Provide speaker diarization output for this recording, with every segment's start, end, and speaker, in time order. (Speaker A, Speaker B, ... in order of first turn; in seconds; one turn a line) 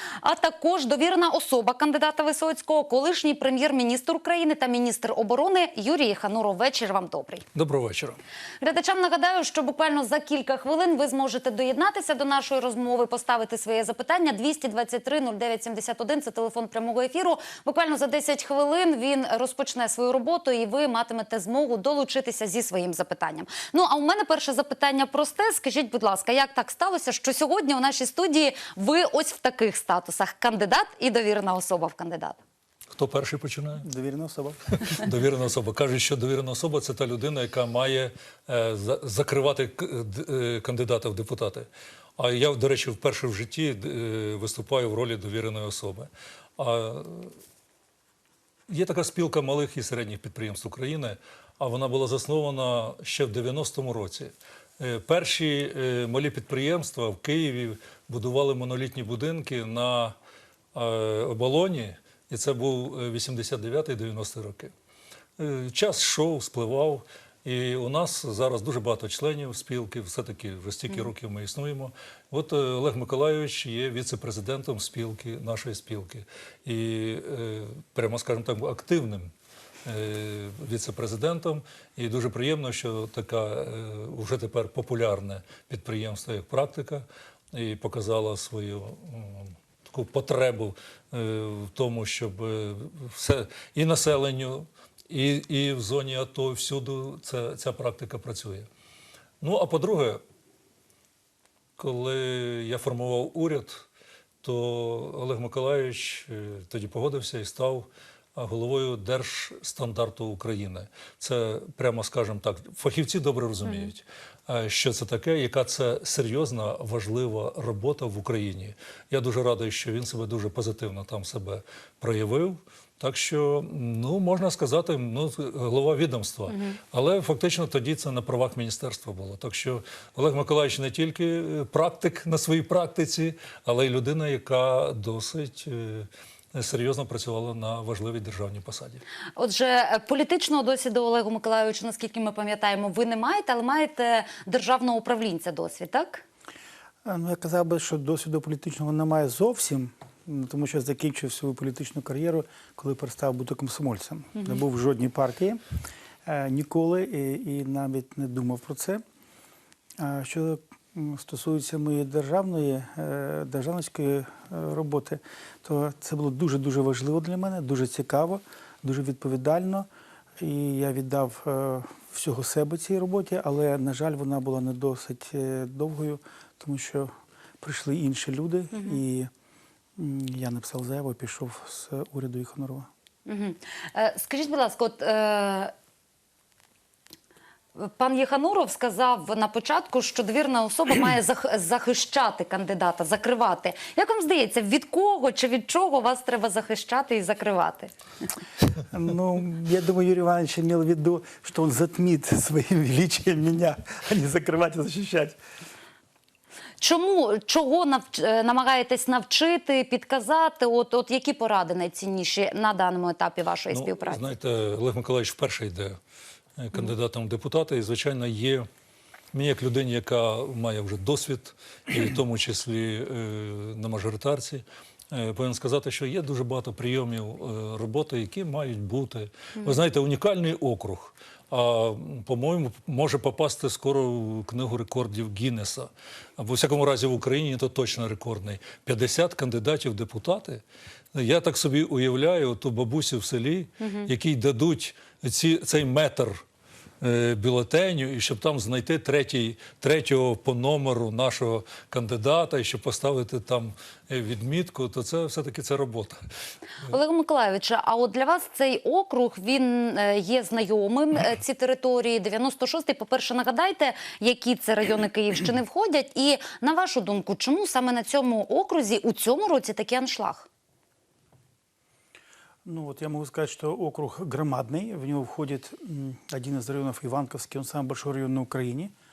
Speaker A: 0.2-7.5
Speaker B: 7.5-8.2
Speaker A: 8.6-32.4
Speaker B: 32.9-33.8
Speaker C: 33.8-34.8
Speaker B: 34.7-41.7
Speaker B: 42.2-47.4
Speaker B: 48.7-60.1
Speaker B: 60.7-64.7
Speaker B: 65.4-79.3
Speaker B: 79.8-98.7
Speaker B: 99.4-100.2
Speaker B: 101.8-103.8
Speaker B: 104.4-139.0
Speaker A: 113.6-113.9
Speaker A: 126.5-126.8
Speaker A: 139.3-146.2
Speaker C: 147.0-155.6
Speaker A: 154.3-154.6
Speaker C: 156.2-159.0
Speaker C: 160.0-169.9
Speaker C: 170.4-177.1
Speaker C: 177.6-179.3
Speaker A: 178.7-179.0
Speaker C: 180.0-182.9
Speaker A: 183.2-185.7
Speaker A: 187.8-197.9
Speaker C: 198.9-205.4
Speaker A: 206.8-214.3
Speaker B: 213.7-216.0
Speaker B: 216.6-218.7
Speaker B: 219.3-240.6
Speaker B: 241.1-246.4
Speaker A: 243.8-244.1
Speaker B: 247.0-256.2
Speaker A: 256.8-270.5
Speaker C: 272.6-278.9